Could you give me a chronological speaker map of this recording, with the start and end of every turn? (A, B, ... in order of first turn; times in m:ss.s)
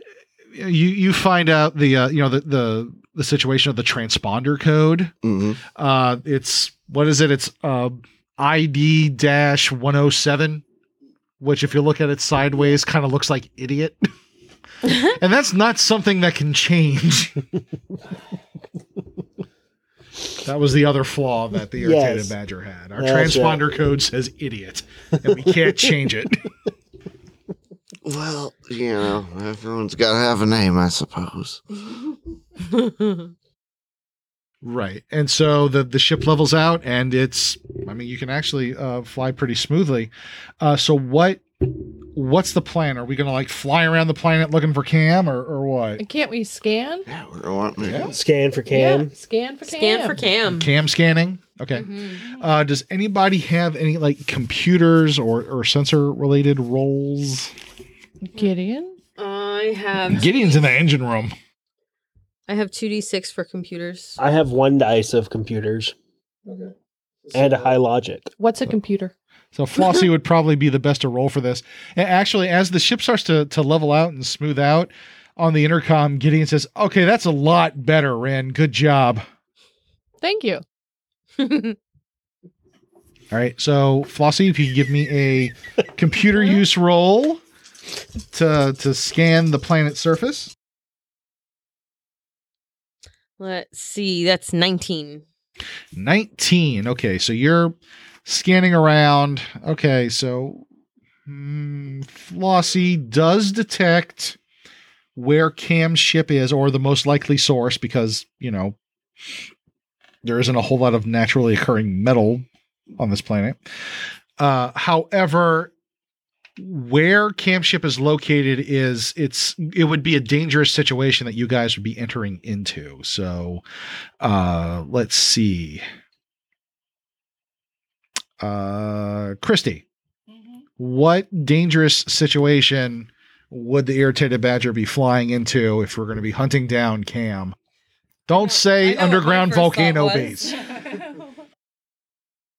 0:00.5-0:05.1 A
0:05.2-0:05.6 B
0:05.7-0:10.6 A
0:11.4-0:14.1 A
0:15.0-0:17.4 A
0:20.4-0:26.4 A
0:21.8-0:22.4 C
0:23.0-0:23.7 C
0:28.0-0:31.6 B
0:34.6-0:41.4 A
0:42.1-0:46.0 A
0:46.0-0:47.1 D
0:47.1-0:48.2 B
0:47.8-0:48.1 A
0:48.1-0:49.1 C
0:48.7-0:50.2 D
0:49.6-0:50.7 E
0:50.4-0:57.5 A
0:51.7-0:52.2 E
0:58.3-0:59.0 D
0:59.2-1:00.6 E
1:00.1-1:01.3 A
1:02.5-1:04.2 E
1:04.2-1:05.9 C
1:07.3-1:08.3 C
1:08.4-1:09.1 D
1:09.5-1:19.2 A
1:20.2-1:20.6 D
1:21.4-1:21.7 E
1:23.3-1:27.4 A
1:28.3-1:30.5 A
1:33.4-1:35.2 E
1:35.9-1:37.7 A
1:38.3-1:40.7 A
1:41.3-1:44.4 A
1:45.2-1:48.8 A
1:50.2-1:52.4 A
1:53.0-1:53.6 A
1:54.4-1:55.7 A
1:56.6-2:03.6 A
2:04.2-2:05.8 A
2:08.4-2:09.8 A
2:10.8-2:17.6 A
2:18.3-2:20.6 A
2:18.3-2:20.6 E